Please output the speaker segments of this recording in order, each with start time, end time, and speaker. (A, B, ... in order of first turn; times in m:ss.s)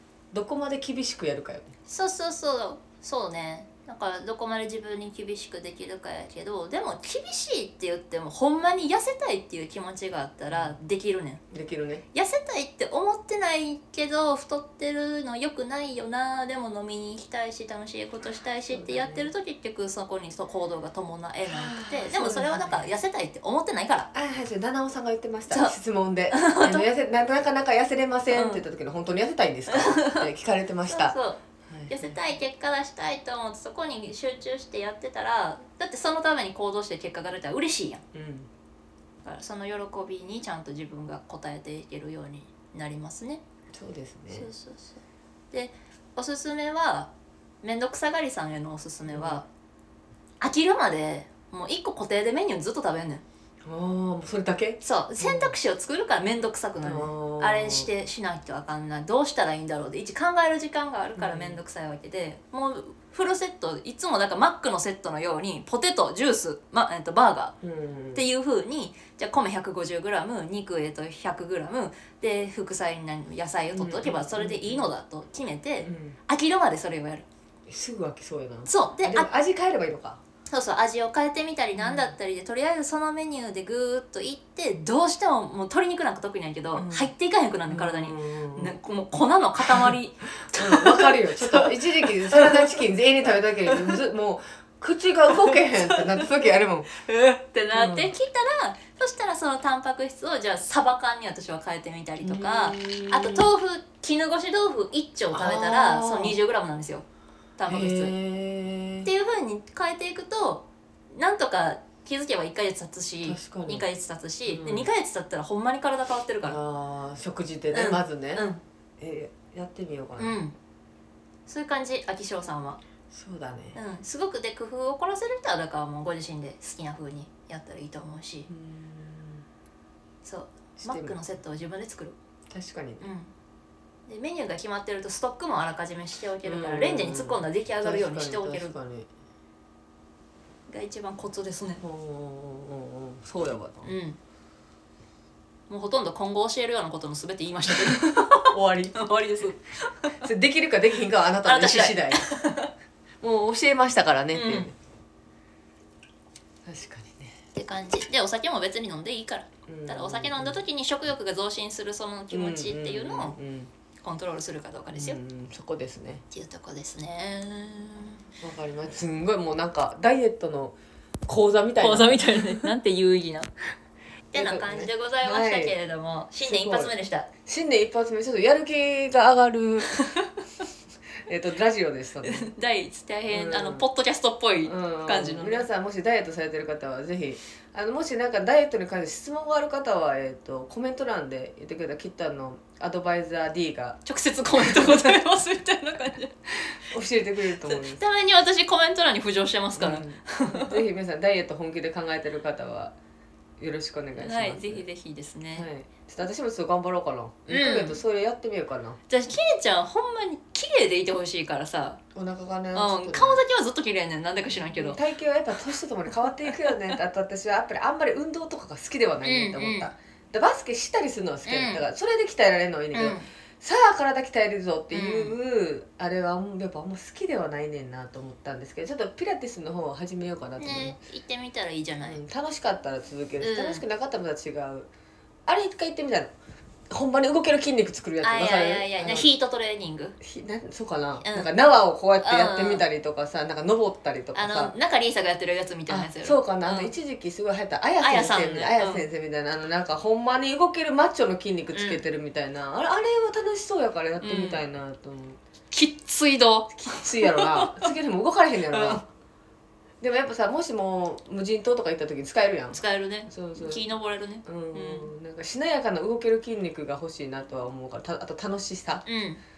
0:00.3-0:01.7 A
0:01.9-0:11.4 B
0:10.5-0:10.8 A
0:11.5-0:12.0 A
0:12.1-0:24.1 B
0:18.7-0:19.3 A
0:21.4-0:22.9 A
0:24.1-0:31.2 A
0:26.3-0:26.8 B
0:28.3-0:28.6 B
0:29.7-0:30.3 B
0:30.9-0:38.0 B
0:31.7-0:32.2 A
0:38.1-0:38.5 A
0:39.2-0:43.4 B
0:43.7-0:44.5 A
0:44.3-0:47.1 B
0:47.6-0:49.4 B
0:49.1-0:49.4 A
0:50.4-0:53.2 B
0:53.6-0:55.5 A
0:54.8-1:07.5 B
0:56.8-0:57.9 A
1:01.2-1:01.6 A
1:07.6-1:08.2 A
1:08.1-1:17.2 B
1:13.7-1:14.9 A
1:15.8-1:16.2 A
1:17.7-1:20.2 A
1:18.6-1:19.3 B
1:20.5-1:32.7 B
1:21.8-1:22.1 A
1:26.7-1:27.1 A
1:27.7-1:28.7 A
1:29.6-1:29.9 A
1:30.5-1:36.9 A
1:33.7-1:34.0 B
1:35.3-1:47.0 B
1:37.7-1:38.1 A
1:42.2-1:43.5 A
1:45.3-1:46.4 A
1:47.6-1:48.1 B
1:47.7-1:49.1 A
1:49.0-1:56.6 B
1:53.2-1:53.8 A
1:54.4-1:54.9 A
1:56.4-1:58.5 A
1:57.7-1:58.6 B
1:59.0-2:00.4 A
2:00.2-2:00.5 B
2:01.5-2:02.8 B
2:03.1-2:03.8 A
2:03.7-2:08.5 B
2:08.5-2:09.4 A
2:10.2-2:12.2 B
2:10.8-2:11.2 A
2:12.5-2:13.0 A
2:13.0-2:13.3 B
2:14.1-2:18.7 B
2:16.4-2:19.1 A
2:20.7-2:21.8 B
2:21.8-2:23.9 A
2:23.8-2:24.2 B
2:25.7-2:30.2 B
2:27.7-2:29.1 A
2:30.2-2:32.3 A
2:31.4-2:32.7 B
2:33.2-2:34.7 A
2:34.3-2:34.7 B
2:36.6-2:37.4 A
2:37.5-2:43.4 B
2:39.7-2:40.6 A
2:42.3-2:43.7 A
2:44.0-2:45.2 B
2:44.9-2:46.2 A
2:46.3-2:48.2 B
2:48.4-2:50.8 A
2:51.3-2:52.7 A
2:51.8-2:53.5 B
2:54.3-2:57.3 B
2:54.3-2:55.8 A
2:56.4-2:56.9 A
2:57.4-3:00.0 A
2:59.9-3:00.3 B
3:01.2-3:02.5 A
3:02.2-3:05.7 B
3:03.3-3:03.8 A
3:04.6-3:14.0 A
3:14.0-3:16.3 B
3:14.5-3:15.1 A
3:16.6-3:18.0 A
3:17.6-3:20.8 B
3:19.8-3:22.9 A
3:23.6-3:24.8 A
3:24.2-3:25.7 B
3:25.5-3:29.0 A
3:27.5-3:28.0 B
3:29.1-3:32.0 B
3:32.1-3:33.4 A
3:32.7-3:35.0 B
3:34.6-3:51.0 A
3:36.4-3:37.0 B
3:39.2-3:39.9 B
3:41.4-3:41.8 B
3:42.9-3:43.3 B
3:44.9-3:45.4 B
3:50.6-3:52.2 B
3:52.0-3:54.9 A
3:53.4-3:53.8 B
3:55.5-3:56.3 A
3:56.9-3:59.3 A
3:58.2-4:00.2 B
4:00.2-4:04.7 A
4:01.2-4:01.5 B
4:02.2-4:02.8 B
4:04.3-4:06.9 B
4:05.9-4:15.4 A
4:08.0-4:09.0 B
4:11.7-4:12.0 B
4:14.2-4:14.6 B
4:15.7-4:17.9 B
4:16.7-4:19.0 A
4:18.7-4:19.0 B
4:20.0-4:23.8 A
4:22.7-4:25.1 B
4:24.4-4:29.0 A
4:29.0-4:29.4 B